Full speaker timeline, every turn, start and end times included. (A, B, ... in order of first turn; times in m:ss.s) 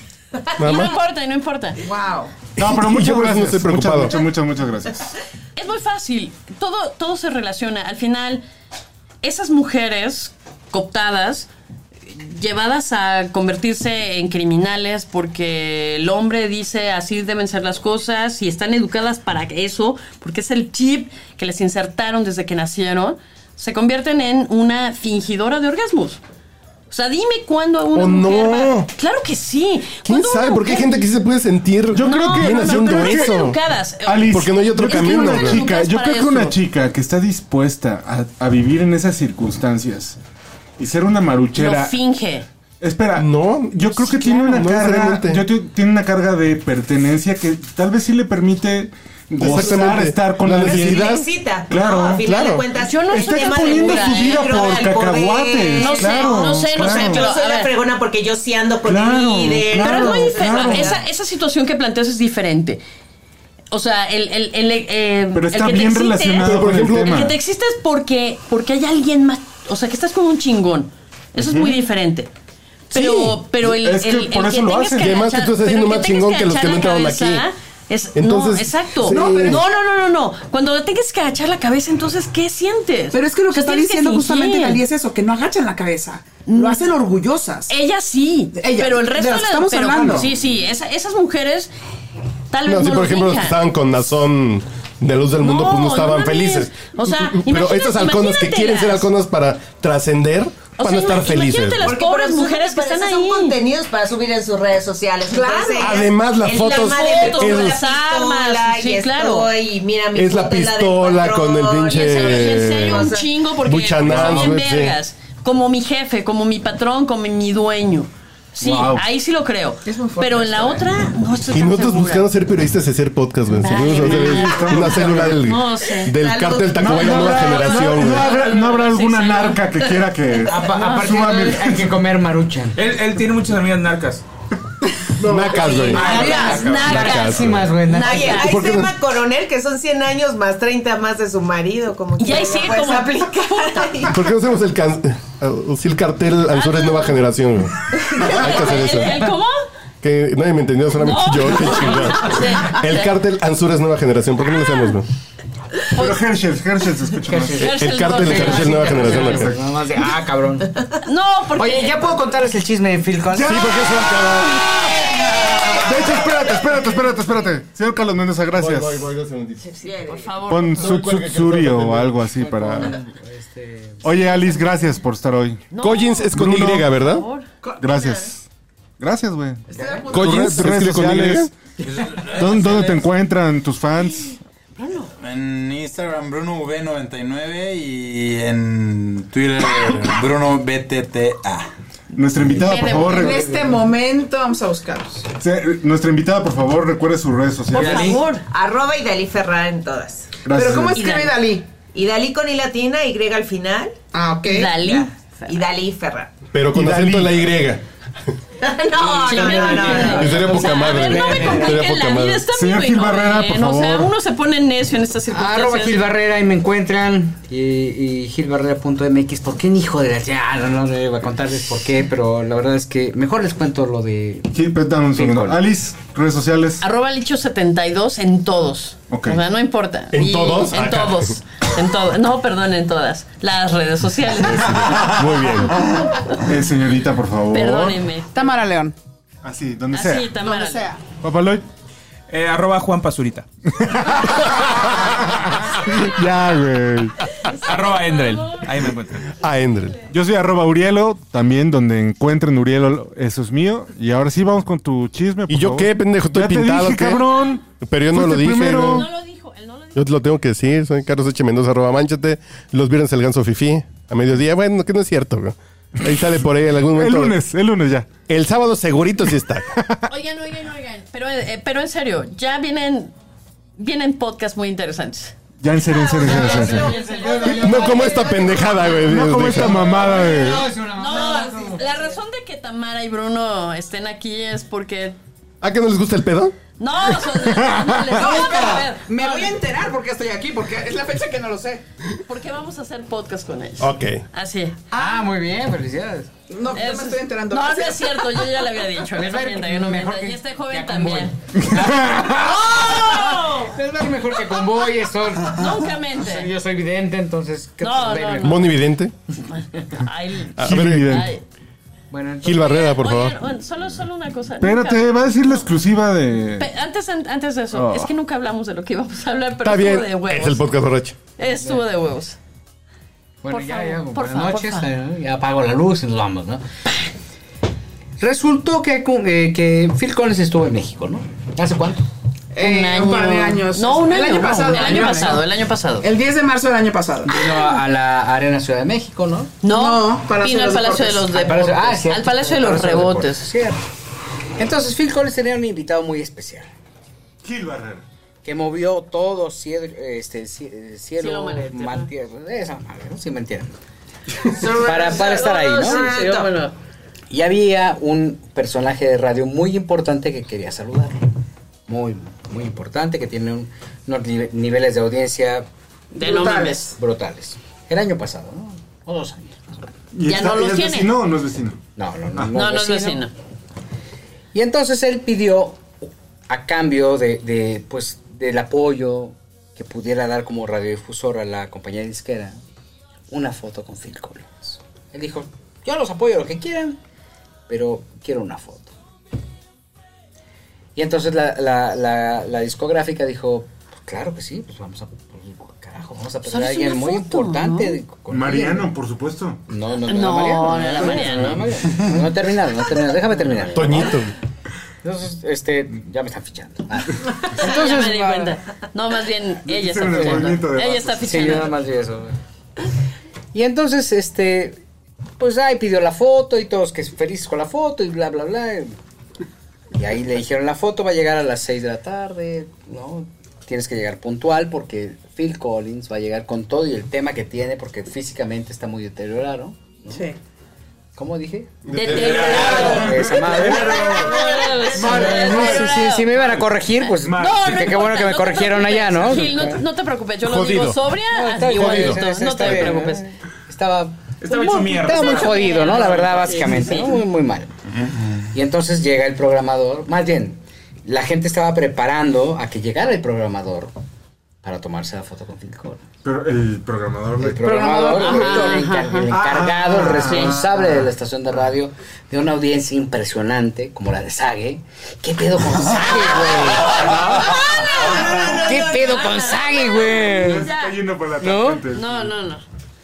0:00.6-0:01.0 A
0:00.6-0:01.8 B
0:01.8-0:02.3 C
0:02.6-0:05.1 D
0:02.6-0:04.2 A
0:05.6-0:08.4 B
0:09.2-0:11.5 B
0:12.0-0:26.2 B
0:26.9-0:31.0 B
0:27.9-0:28.9 A
0:30.0-0:33.6 A
0:31.9-0:33.5 D
0:32.0-0:36.6 B
0:34.1-0:40.2 D
0:34.3-0:35.6 A
0:40.8-0:42.0 D
0:41.5-0:42.5 B
0:42.8-0:52.3 D
0:43.2-0:45.4 A
0:49.4-0:51.2 A
0:50.6-1:01.0 E
0:52.2-0:52.6 A
0:52.7-0:54.5 B
0:53.0-0:57.3 D
0:55.8-0:57.7 B
0:58.8-1:01.0 D
0:59.8-1:02.8 B
1:03.7-1:12.3 B
1:05.3-1:07.4 D
1:06.4-1:07.3 A
1:11.4-1:11.8 D
1:12.9-1:24.8 B
1:12.9-1:15.1 D
1:15.0-1:17.5 A
1:18.1-1:19.6 A
1:19.1-1:19.6 C
1:23.1-1:27.7 C
1:26.5-1:26.8 B
1:27.7-1:31.7 B
1:28.6-1:30.3 C
1:32.5-1:33.6 B
1:32.6-1:42.0 A
1:35.4-1:39.1 B
1:40.8-1:43.6 B
1:41.8-1:53.3 E
1:45.3-1:45.9 C
1:45.8-1:47.8 A
1:46.6-1:49.5 B
1:50.1-1:55.0 A
1:51.9-2:02.2 B
1:54.0-1:54.4 D
1:58.6-1:59.0 D
1:59.8-2:00.8 C
2:01.5-2:08.3 A
2:03.5-2:06.2 B
2:03.9-2:05.4 D
2:06.1-2:07.8 E
2:06.7-2:11.9 D
2:07.5-2:09.8 B
2:10.4-2:12.8 F
2:10.8-2:11.1 B
2:12.8-2:14.2 G
2:15.2-2:19.0 A
2:15.6-2:18.4 F
2:15.7-2:18.5 B
2:15.7-2:16.2 E
2:16.0-2:16.6 C
2:16.2-2:16.5 G
2:17.9-2:24.2 E
2:22.2-2:24.0 B
2:24.1-2:29.2 A
2:26.5-2:27.2 B
2:28.1-2:29.6 B
2:30.0-2:35.0 A
2:31.0-2:33.1 B
2:35.9-2:36.2 B
2:35.9-2:37.7 D
2:37.3-2:40.7 F
2:37.6-2:39.5 B
2:37.6-2:39.6 A
2:41.0-2:42.2 B
2:41.5-2:43.6 F
2:43.3-2:43.8 D
2:43.4-2:44.8 A
2:45.7-2:49.0 D
2:48.5-2:49.7 A
2:49.8-2:51.0 B
2:50.5-2:53.0 D
2:50.8-2:52.3 A
2:52.3-2:54.6 F
2:54.0-2:55.6 D
2:55.7-2:57.5 B
2:55.8-2:57.2 A
2:56.3-2:56.9 D
2:57.6-2:58.2 C
2:57.8-2:58.4 D
2:59.0-3:01.5 D
2:59.7-3:00.5 F
2:59.8-3:00.3 C
3:00.1-3:01.5 A
3:01.8-3:03.0 H
3:02.2-3:04.4 D
3:04.8-3:05.1 B
3:05.2-3:11.7 H
3:12.1-3:13.8 D
3:12.6-3:13.3 B
3:12.7-3:15.3 C
3:15.4-3:18.2 D
3:17.7-3:18.4 B
3:17.8-3:18.1 H
3:18.4-3:20.3 E
3:20.4-3:21.1 D
3:20.5-3:21.6 C
3:20.9-3:21.3 B
3:21.9-3:23.9 E
3:24.1-3:24.8 C
3:24.4-3:25.6 B
3:24.8-3:26.3 E
3:26.5-3:27.8 A
3:26.7-3:27.4 D
3:28.6-3:30.4 E
3:29.0-3:36.1 B
3:29.2-3:31.8 F
3:30.0-3:32.4 A
3:32.5-3:34.1 D
3:35.3-3:45.6 F
3:44.5-3:46.8 D
3:46.8-3:55.0 B
3:49.1-3:49.4 D
3:50.1-3:51.4 A
3:54.3-3:55.8 A
3:56.1-3:56.4 B
3:56.3-3:58.0 D
3:57.5-3:58.3 B
3:58.3-3:59.0 C
3:59.4-4:00.3 D
3:59.9-4:00.9 B
4:00.4-4:01.0 C
4:01.2-4:01.6 D
4:02.3-4:03.5 G
4:03.7-4:07.2 D
4:07.4-4:08.7 B
4:07.6-4:09.3 G
4:09.4-4:10.0 A
4:10.1-4:19.1 D
4:15.5-4:17.3 A
4:17.8-4:19.1 A
4:18.8-4:20.1 B
4:19.9-4:27.4 A
4:26.0-4:26.3 D
4:26.9-4:28.1 D
4:28.3-4:29.7 A
4:30.1-4:33.1 B
4:33.8-4:38.8 B
4:35.6-4:36.9 D
4:36.2-4:39.0 F
4:37.5-4:39.8 A
4:39.0-4:40.7 D
4:39.5-4:41.9 F
4:40.8-4:45.2 B
4:45.6-4:46.6 A
4:46.8-4:49.5 B
4:47.4-4:48.1 D
4:48.1-4:51.8 C
4:52.2-4:54.8 B
4:53.8-4:54.2 A
4:54.9-4:55.2 C
4:54.9-4:56.3 F
4:56.5-4:58.5 C
4:56.7-5:01.4 B
4:59.1-5:08.8 F
5:01.6-5:02.7 D
5:02.3-5:03.8 B
5:04.3-5:04.9 B
5:05.4-5:06.5 B
5:07.8-5:08.8 B
5:08.4-5:09.1 A
5:09.4-5:11.4 B
5:10.6-5:11.3 A
5:10.6-5:11.3 D
5:12.1-5:12.7 F
5:12.4-5:13.4 A
5:12.5-5:15.6 B
5:14.6-5:16.7 D
5:16.6-5:20.6 B
5:17.7-5:18.1 D
5:19.6-5:21.2 A
5:21.4-5:22.4 B
5:21.5-5:21.8 F
5:23.4-5:26.6 F
5:23.5-5:24.9 B
5:28.2-5:32.0 F
5:32.5-5:35.4 C
5:32.6-5:36.1 B
5:34.3-5:35.4 F
5:36.0-5:37.3 C
5:37.3-5:39.6 F
5:37.4-5:37.8 B
5:39.6-5:43.5 B
5:39.7-5:41.5 C
5:41.3-5:43.8 F
5:44.6-5:46.7 F
5:47.4-5:48.0 D
5:48.4-5:53.8 F
5:51.2-5:52.1 B
5:54.5-5:56.7 F
5:54.6-5:56.6 E
5:54.8-5:56.1 B
5:57.3-6:01.3 F
6:01.9-6:05.7 F
6:06.1-6:06.9 B
6:06.2-6:06.8 C
6:06.3-6:09.8 F
6:10.1-6:11.8 D
6:10.2-6:11.1 B
6:12.0-6:13.3 F
6:12.5-6:13.3 B
6:14.5-6:15.9 F
6:16.5-6:22.6 F
6:23.3-6:27.0 F
6:27.7-6:28.9 F
6:30.9-6:38.9 F
6:36.4-6:38.0 B
6:38.3-6:39.6 D
6:39.7-6:44.3 F
6:40.0-6:41.6 B
6:41.1-6:41.6 D
6:43.7-6:44.3 A
6:45.0-6:48.4 F
6:47.5-6:48.5 C
6:47.6-6:51.7 B
6:49.6-6:51.8 D
6:50.1-6:50.6 F
6:51.2-6:52.4 F
6:53.5-6:54.8 F
6:55.4-6:58.9 F
6:59.9-7:10.3 F
7:10.1-7:10.3 C
7:11.2-7:14.4 F
7:11.8-7:13.1 A
7:11.9-7:23.2 B
7:12.1-7:16.6 D
7:15.0-7:19.8 F
7:17.2-7:17.6 D
7:20.4-7:21.0 A
7:21.3-7:27.7 F
7:21.8-7:22.2 D
7:24.4-7:26.9 G
7:24.5-7:27.2 B
7:27.9-7:28.5 H
7:28.5-7:33.9 F
7:34.6-7:36.0 F
7:36.2-7:38.6 D
7:37.4-7:50.7 F
7:38.2-7:39.3 B
7:38.2-7:38.7 C
7:39.3-7:41.1 D
7:40.2-7:40.6 B
7:46.9-7:48.6 D
7:47.6-7:48.1 B
7:47.7-7:49.4 E
7:48.7-7:51.0 B
7:50.3-7:52.3 D
7:51.4-7:51.9 F
7:51.9-7:52.6 B